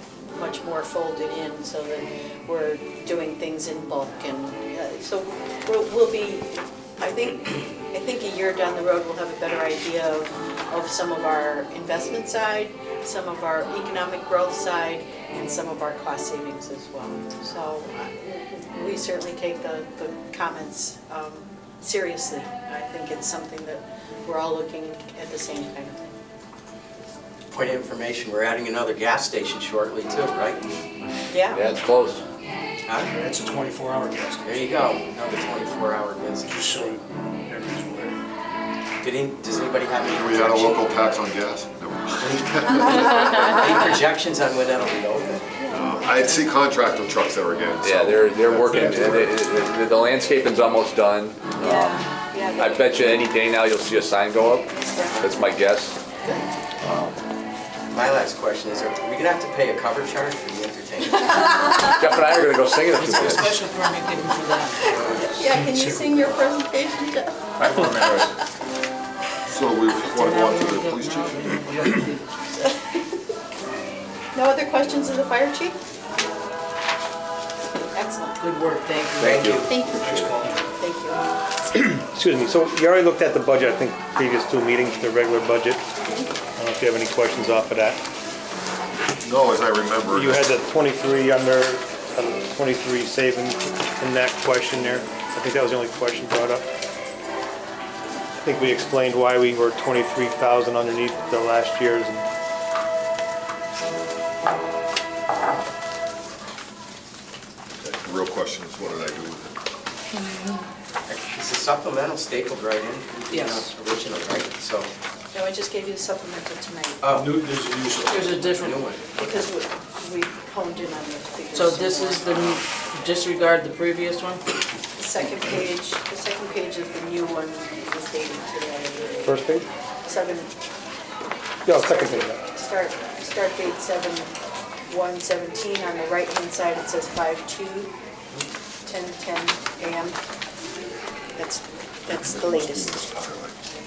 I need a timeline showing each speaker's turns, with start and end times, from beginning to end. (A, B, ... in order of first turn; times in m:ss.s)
0:00.3-0:26.1 A
0:27.5-0:30.6 B
0:31.3-0:31.7 A
0:31.5-0:32.2 C
0:32.9-0:33.1 B
0:33.1-0:34.6 D
0:34.4-0:37.0 B
0:36.5-0:38.2 D
0:39.0-0:41.2 B
0:40.0-0:43.7 E
0:42.2-0:45.5 B
0:42.6-0:43.9 A
0:45.7-0:49.4 E
0:47.8-0:52.0 C
0:51.6-0:53.1 A
0:52.6-0:56.0 C
0:54.8-0:55.3 A
0:57.9-1:02.0 B
1:01.7-1:02.1 A
1:01.8-1:03.6 C
1:02.9-1:04.9 F
1:04.9-1:05.3 B
1:04.9-1:06.0 D
1:04.9-1:08.4 A
1:07.6-1:08.4 C
1:09.5-1:11.9 E
1:10.0-1:12.2 F
1:12.6-1:13.0 A
1:14.3-1:15.8 A
1:17.8-1:18.4 A
1:18.4-1:19.6 F
1:19.2-1:19.8 B
1:19.6-1:21.2 A
1:20.0-1:20.6 D
1:22.0-1:25.8 G
1:26.6-1:28.0 G
1:29.2-1:30.5 E
1:30.1-1:36.7 G
1:38.4-1:42.3 G
1:47.8-1:49.6 E
1:51.1-1:54.9 B
1:53.3-1:53.7 F
1:55.3-1:57.1 A
1:57.0-1:57.4 B
1:57.1-1:58.5 D
1:58.0-1:58.9 F
1:58.5-1:59.5 B
1:59.2-2:02.5 A
2:01.5-2:04.4 F
2:05.0-2:09.4 A
2:09.2-2:09.7 G
2:10.0-2:10.5 A
2:11.6-2:12.4 G
2:11.7-2:14.3 A
2:14.9-2:17.9 A
2:18.8-2:20.2 A
2:21.4-2:23.0 A
2:22.1-2:23.6 E